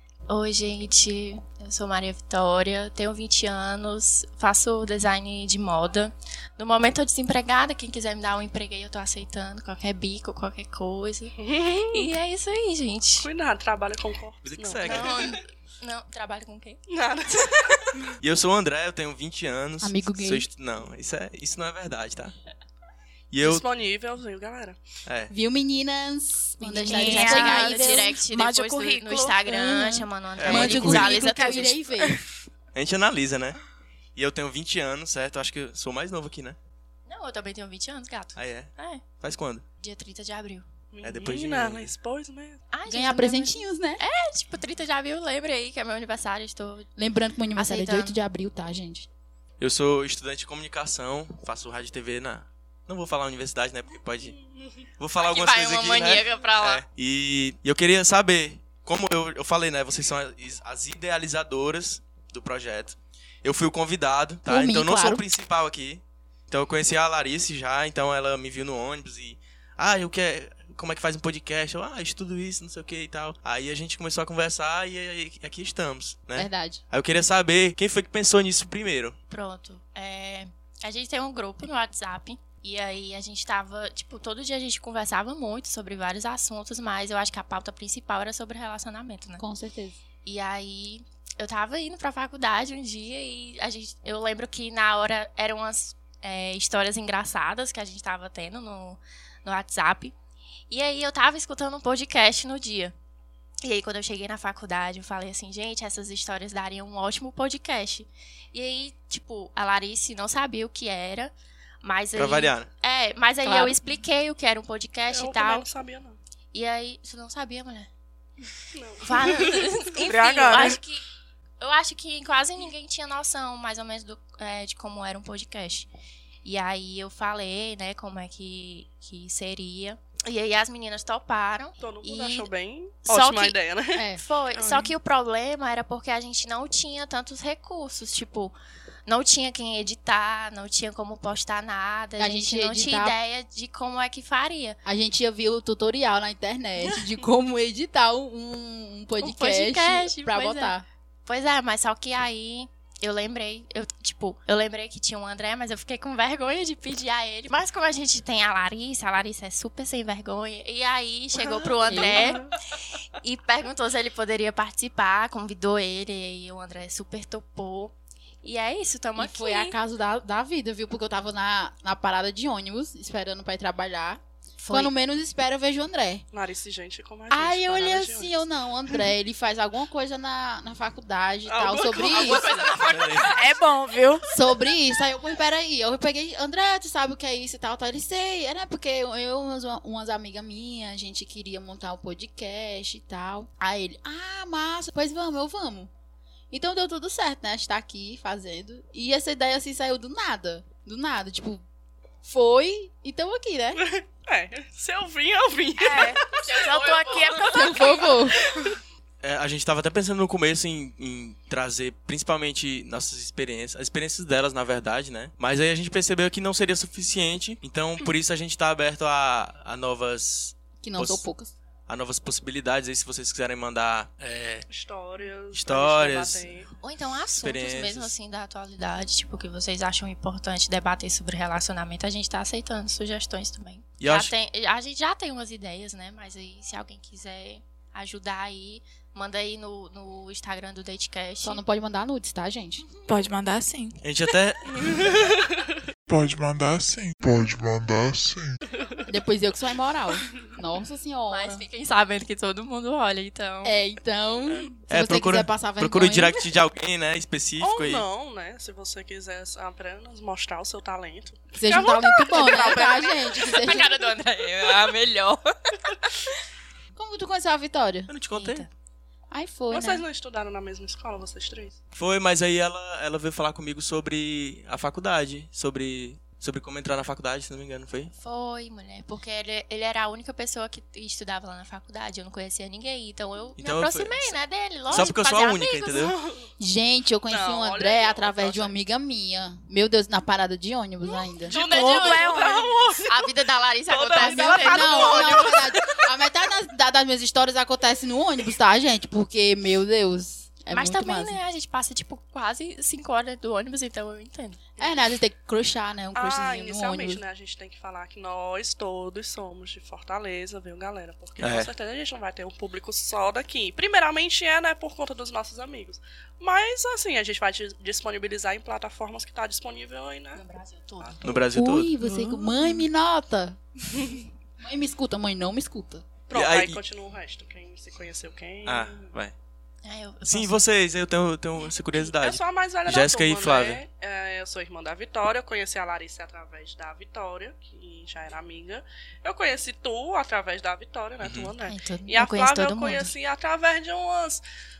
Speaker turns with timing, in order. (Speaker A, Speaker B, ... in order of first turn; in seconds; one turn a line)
Speaker A: 0.3-13.3
Speaker B: 11.4-12.0
Speaker B: 13.2-15.4
Speaker C: 14.4-15.3
Speaker A: 14.8-16.8
Speaker B: 16.9-18.0
Speaker C: 18.2-22.3
Speaker D: 19.8-20.5
Speaker C: 23.3-23.6
Speaker B: 23.4-24.8
Speaker C: 25.1-25.3
Speaker D: 25.3-28.2
Speaker A: 26.6-31.8
Speaker E: 26.8-30.0
Speaker C: 30.4-31.2
Speaker D: 30.4-32.2
Speaker E: 30.7-32.2
Speaker C: 32.7-33.6
Speaker C: 34.1-36.6
Speaker A: 37.0-39.0
Speaker C: 38.4-39.6
Speaker A: 39.8-40.7
Speaker B: 40.9-42.6
Speaker C: 41.0-41.9
Speaker A: 42.7-46.9
Speaker D: 42.9-44.0
Speaker D: 47.0-49.1
Speaker A: 47.5-48.1
Speaker C: 49.6-54.4
Speaker B: 54.2-54.9
Speaker C: 55.0-79.2
Speaker A: 55.2-56.8
Speaker D: 64.5-65.2
Speaker D: 76.3-76.8
Speaker A: 79.3-89.4
Speaker D: 89.4-90.0
Speaker A: 90.2-100.1
Speaker A: 100.7-102.9
Speaker A: 103.6-115.7
Speaker C: 112.1-112.7
Speaker D: 113.4-113.8
Speaker B: 115.1-116.2
Speaker A: 116.5-117.9
Speaker B: 118.7-119.8
Speaker A: 119.0-121.0
Speaker E: 120.0-120.8
Speaker A: 121.6-125.9
Speaker A: 126.4-132.5
Speaker B: 131.8-134.9
Speaker A: 133.1-133.6
Speaker D: 133.9-134.2
Speaker A: 134.2-144.8
Speaker D: 142.2-143.2
Speaker D: 144.8-150.8
Speaker A: 149.2-162.4
Speaker B: 161.4-162.5
Speaker D: 161.9-162.4
Speaker A: 163.2-169.8
Speaker D: 169.2-176.2
Speaker A: 174.6-174.9
Speaker B: 176.3-179.0
Speaker D: 177.3-182.5
Speaker B: 181.4-182.9
Speaker A: 181.9-183.5
Speaker C: 182.8-183.3
Speaker E: 183.3-184.2
Speaker D: 184.3-195.9
Speaker D: 196.5-201.6
Speaker D: 202.2-203.8
Speaker B: 203.7-206.5
Speaker E: 205.8-207.7
Speaker A: 206.4-207.9
Speaker B: 207.1-207.9
Speaker D: 207.5-208.4
Speaker B: 208.4-208.7
Speaker C: 209.2-221.2
Speaker D: 220.8-221.5
Speaker C: 221.9-224.7
Speaker B: 224.7-226.7
Speaker C: 225.5-226.5
Speaker A: 226.8-241.6
Speaker C: 227.3-228.1
Speaker C: 234.0-234.3
Speaker D: 241.4-242.9
Speaker E: 243.1-244.0
Speaker C: 244.0-245.2
Speaker B: 244.7-245.7
Speaker F: 246.1-248.6
Speaker B: 248.7-249.0
Speaker D: 249.1-251.6
Speaker A: 251.3-253.8
Speaker D: 253.6-256.4
Speaker C: 254.9-258.1
Speaker B: 257.6-262.9
Speaker D: 261.5-264.0
Speaker E: 262.3-263.1
Speaker A: 263.5-265.8
Speaker D: 266.9-268.1
Speaker C: 268.1-268.7
Speaker A: 268.3-268.7
Speaker D: 269.3-270.1
Speaker B: 269.7-271.8
Speaker C: 271.9-278.1
Speaker A: 278.1-286.1
Speaker C: 283.6-284.4
Speaker C: 284.9-286.1
Speaker B: 286.0-286.4
Speaker D: 286.6-291.5
Speaker B: 287.3-288.7
Speaker B: 291.5-293.3
Speaker A: 291.5-295.6
Speaker E: 291.5-292.7
Speaker B: 293.9-296.1
Speaker D: 294.1-301.4
Speaker A: 300.7-304.7
Speaker D: 304.8-307.2
Speaker B: 306.1-320.4
Speaker C: 311.4-311.7
Speaker A: 320.3-321.4
Speaker B: 321.0-321.3
Speaker C: 321.2-322.3
Speaker D: 321.5-323.6
Speaker B: 323.9-324.2
Speaker D: 324.6-326.1
Speaker B: 326.3-329.1
Speaker C: 326.3-326.8
Speaker C: 328.6-329.3
Speaker A: 329.8-330.6
Speaker C: 330.2-333.8
Speaker B: 332.0-344.4
Speaker C: 341.2-341.5
Speaker A: 341.6-343.1